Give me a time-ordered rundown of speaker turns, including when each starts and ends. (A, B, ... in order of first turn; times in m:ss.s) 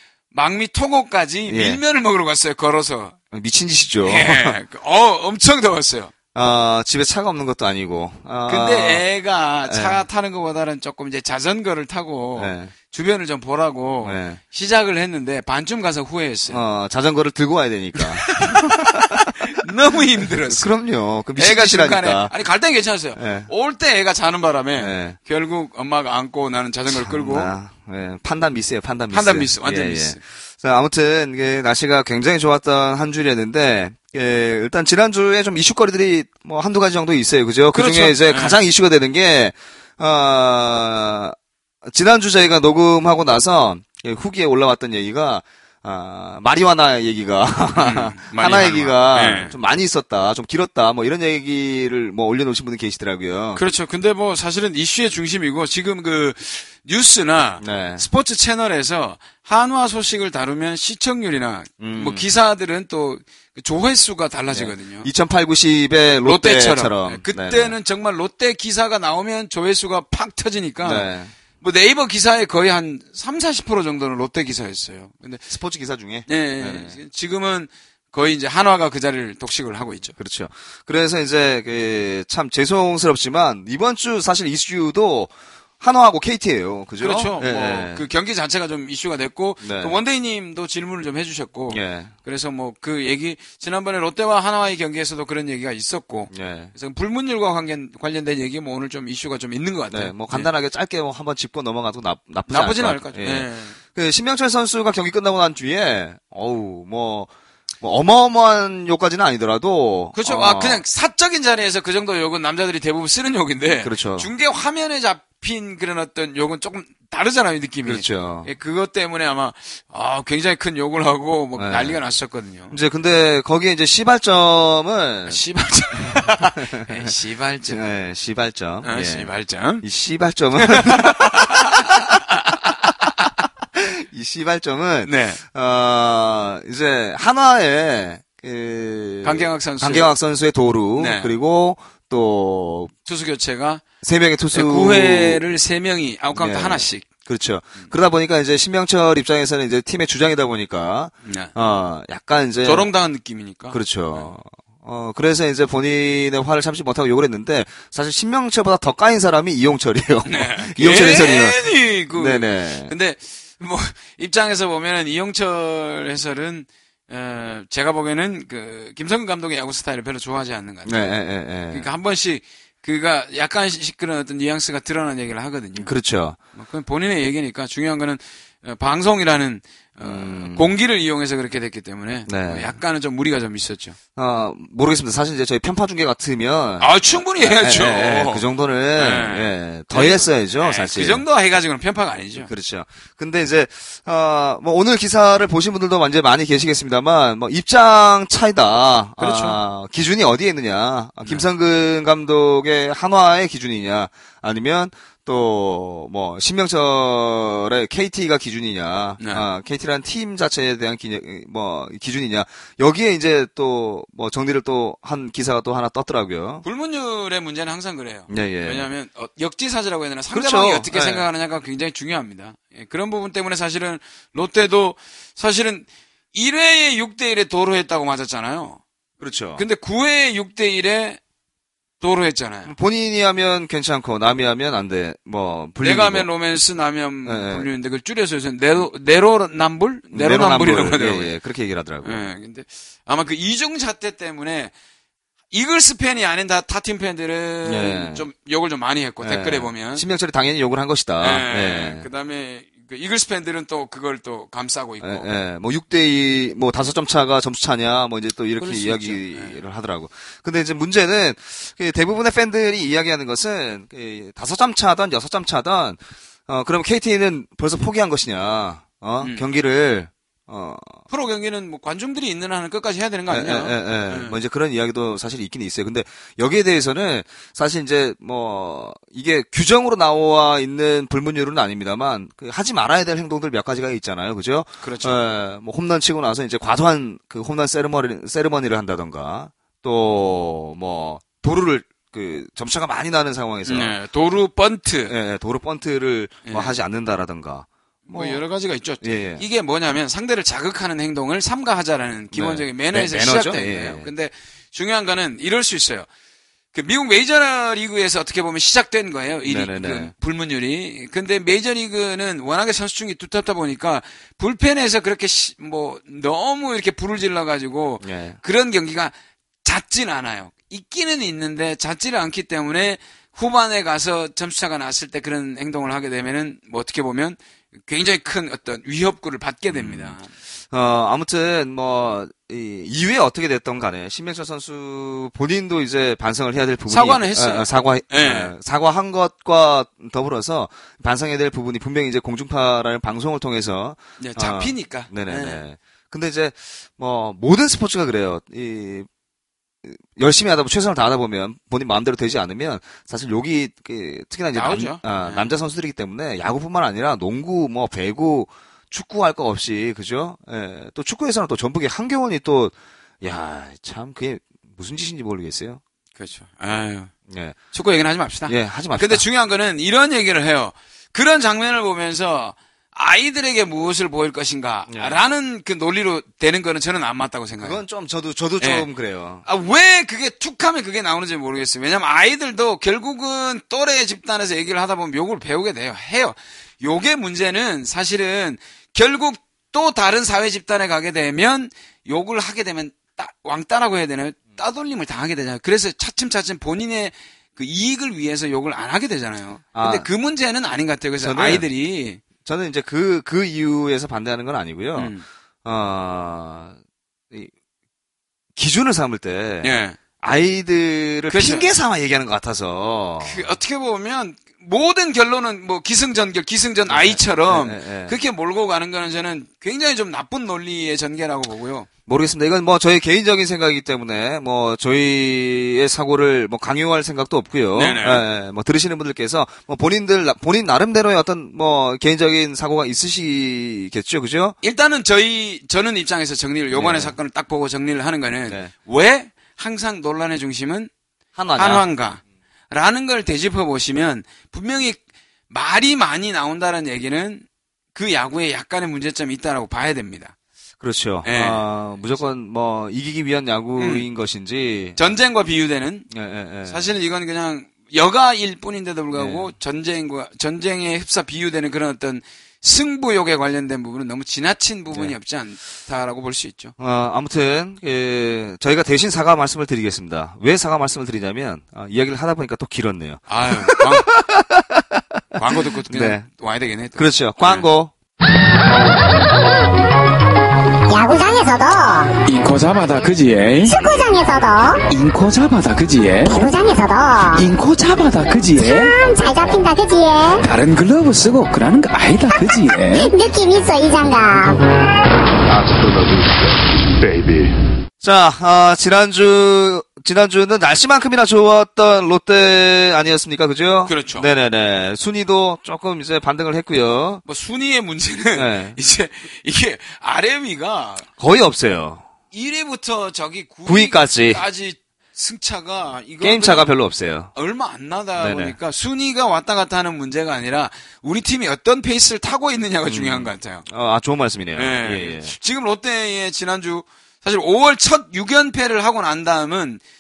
0:00.3-0:03.2 A
0:01.5-0:01.8 B
0:03.3-0:04.6 B
0:04.0-0:06.1 A
0:06.3-0:09.0 B
0:08.5-0:16.6 A
0:09.7-0:10.0 B
0:12.4-0:12.7 B
0:14.0-0:14.4 B
0:16.5-0:19.5 B
0:18.0-0:20.7 A
0:20.3-0:22.3 B
0:21.3-0:27.5 A
0:23.2-0:23.5 B
0:24.8-0:25.2 B
0:26.9-0:53.6 B
0:29.1-0:30.2 A
0:37.7-0:38.6 A
0:47.7-0:49.5 A
0:53.5-1:05.1 A
0:57.6-0:58.0 B
1:01.8-1:02.2 B
1:04.5-1:07.7 B
1:06.2-1:15.5 A
1:10.8-1:11.3 B
1:15.5-1:17.0 B
1:16.3-1:20.1 A
1:20.2-1:28.0 B
1:27.0-1:40.5 A
1:29.6-1:30.0 B
1:31.7-1:32.1 B
1:36.3-1:36.7 B
1:39.9-1:47.3 B
1:42.5-1:43.8 A
1:47.8-1:50.8 B
1:50.1-2:02.8 A
1:53.7-1:54.3 B
1:57.8-1:58.5 B
2:01.6-2:02.0 B
2:02.7-2:05.4 B
2:05.3-2:07.8 A
2:06.4-2:06.8 B
2:07.7-2:09.3 B
2:08.8-2:09.8 A
2:09.8-2:12.2 B
2:10.6-2:12.2 A
2:13.7-2:22.9 B
2:15.0-2:15.4 A
2:19.2-2:20.1 A
2:21.0-2:21.3 A
2:23.0-2:23.8 A
2:24.0-2:25.4 B
2:24.5-2:27.0 A
2:26.3-2:32.9 B
2:31.2-2:31.5 A
2:32.6-2:34.3 A
2:33.7-2:42.9 B
2:40.2-2:51.0 A
2:50.8-2:51.9 B
2:51.7-2:55.9 A
2:55.7-2:56.4 B
2:56.5-3:04.0 A
3:00.0-3:00.7 B
3:02.3-3:02.7 B
3:04.2-3:11.2 B
3:06.8-3:12.5 A
3:12.4-3:36.6 B
3:19.2-3:19.6 A
3:29.2-3:29.4 A
3:36.6-3:48.8 A
3:38.3-3:38.9 B
3:40.3-3:41.3 B
3:49.2-3:49.6 B
3:49.6-3:51.2 A
3:52.0-3:52.7 A
3:52.6-3:56.3 B
3:55.8-4:01.3 A
3:57.2-3:57.7 B
4:00.1-4:02.2 B
4:02.0-4:04.7 A
4:05.5-4:10.0 A
4:07.6-4:08.2 B
4:09.2-4:12.0 B
4:11.2-4:15.3 A
4:15.0-4:31.0 B
4:18.6-4:19.6 A
4:31.1-4:34.4 A
4:33.3-4:53.9 B
4:44.8-4:45.2 A
4:53.6-4:55.1 A
4:55.1-4:58.4 B
4:56.4-4:56.8 A
4:58.1-5:06.1 A
4:59.0-4:59.4 B
5:02.3-5:04.1 B
5:06.7-5:30.3 A
5:09.4-5:10.1 B
5:18.0-5:18.4 B
5:29.7-5:30.2 B
5:30.7-5:49.1 B
5:36.9-5:38.5 A
5:44.2-5:45.6 A
5:49.8-6:05.8 B
5:54.5-5:55.5 A
6:06.2-6:07.1 A
6:07.3-6:07.6 B
6:07.7-6:17.8 A
6:08.4-6:09.2 B
6:14.9-6:15.2 B
6:17.6-6:19.4 B
6:18.6-6:18.8 A
6:19.4-6:42.2 A
6:39.7-6:40.1 B
6:41.2-6:41.6 B
6:42.4-6:45.1 B
6:44.9-6:45.2 A
6:45.6-6:46.8 B
6:48.6-6:53.4 B
6:49.6-6:50.0 A
6:51.3-6:51.7 A
6:53.2-7:01.9 A
6:56.9-6:58.1 B
7:02.1-7:14.6 B
7:07.7-7:08.2 A
7:14.6-7:20.9 A
7:16.7-7:17.2 B
7:21.4-7:21.8 B
7:21.6-7:30.3 A
7:30.8-7:35.0 B
7:31.2-7:31.6 A
7:33.8-7:34.0 A
7:35.0-7:36.1 A
7:36.1-7:36.9 B
7:36.6-7:46.7 A
7:39.1-7:39.5 B
7:46.8-7:56.2 B
7:53.3-7:54.1 A
7:55.3-7:57.6 A
7:57.0-7:57.9 B
8:00.9-8:02.1 C
8:02.3-8:03.7 D
8:03.6-8:04.8 C
8:04.9-8:06.4 D
8:06.2-8:07.4 C
8:07.4-8:08.9 D
8:08.6-8:10.5 C
8:10.4-8:13.1 D
8:12.9-8:14.6 C
8:15.4-8:17.6 E
8:18.0-8:27.2 B
8:23.8-8:24.3 A
8:27.2-8:31.1 A
8:28.3-8:28.8 B
8:31.2-8:32.0 B
8:32.3-8:36.7 A
8:33.6-8:34.4 B
8:36.2-8:37.3 B
8:37.3-8:43.6 A
8:38.2-8:38.6 B
8:42.8-8:45.3 B
8:44.6-8:49.8 A